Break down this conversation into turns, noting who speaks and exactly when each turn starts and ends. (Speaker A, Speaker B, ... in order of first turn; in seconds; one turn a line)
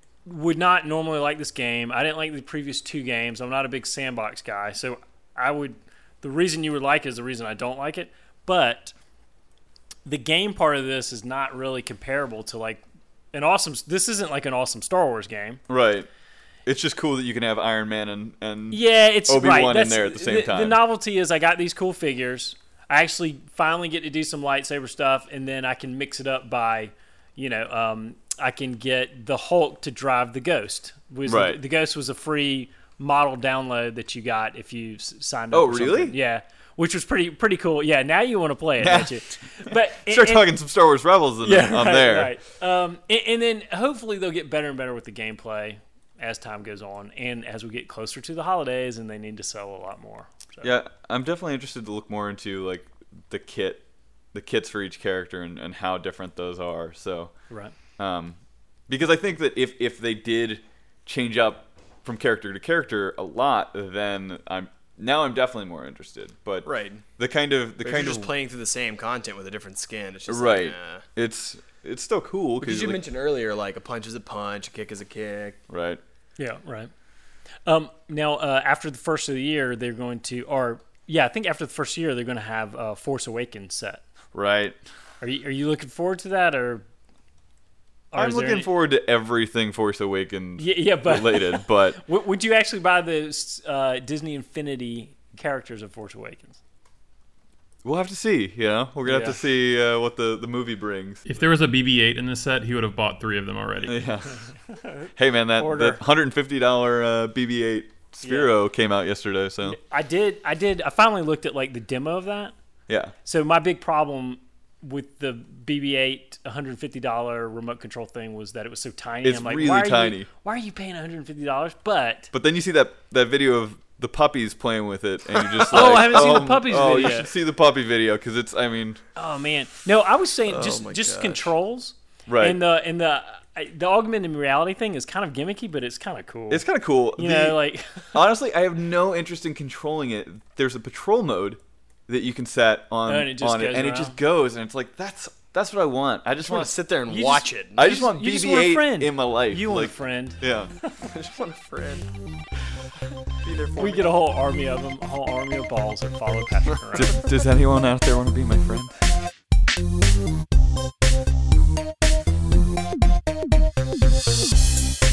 Speaker A: 0.2-8.9
Speaker A: 10.1-15.6
Speaker B: 15.7-16.1
Speaker B: 16.7-20.8
Speaker A: 18.7-40.5
Speaker B: 31.2-31.6
Speaker B: 35.5-36.1
Speaker B: 38.8-42.4
Speaker A: 41.4-50.7
Speaker B: 50.6-57.3
Speaker B: 58.0-58.4
Speaker B: 58.9-68.3
Speaker C: 66.7-67.0
Speaker C: 67.8-71.0
Speaker B: 70.3-73.0
Speaker C: 72.6-75.6
Speaker B: 75.7-76.0
Speaker A: 76.4-76.9
Speaker A: 77.7-84.0
Speaker B: 84.3-84.8
Speaker A: 85.2-86.8
Speaker A: 88.1-88.7
Speaker B: 88.2-92.0
Speaker A: 90.6-96.6
Speaker B: 97.8-101.3
Speaker A: 99.0-99.4
Speaker D: 101.3-104.1
Speaker B: 103.9-104.5
Speaker A: 104.7-106.0
Speaker B: 105.2-109.8
Speaker A: 108.2-108.5
Speaker A: 109.7-112.5
Speaker B: 112.9-113.2
Speaker A: 113.2-122.3
Speaker B: 119.2-120.3
Speaker B: 122.3-129.0
Speaker C: 125.6-125.9
Speaker A: 125.7-127.3
Speaker A: 129.2-136.6
Speaker C: 130.5-131.5
Speaker B: 132.3-132.6
Speaker B: 136.5-137.6
Speaker A: 137.2-138.3
Speaker B: 138.1-146.8
Speaker A: 143.1-144.2
Speaker C: 146.5-147.9
Speaker A: 147.1-151.1
Speaker B: 147.8-150.7
Speaker C: 151.1-152.1
Speaker C: 153.4-154.1
Speaker A: 153.8-157.2
Speaker B: 156.9-159.0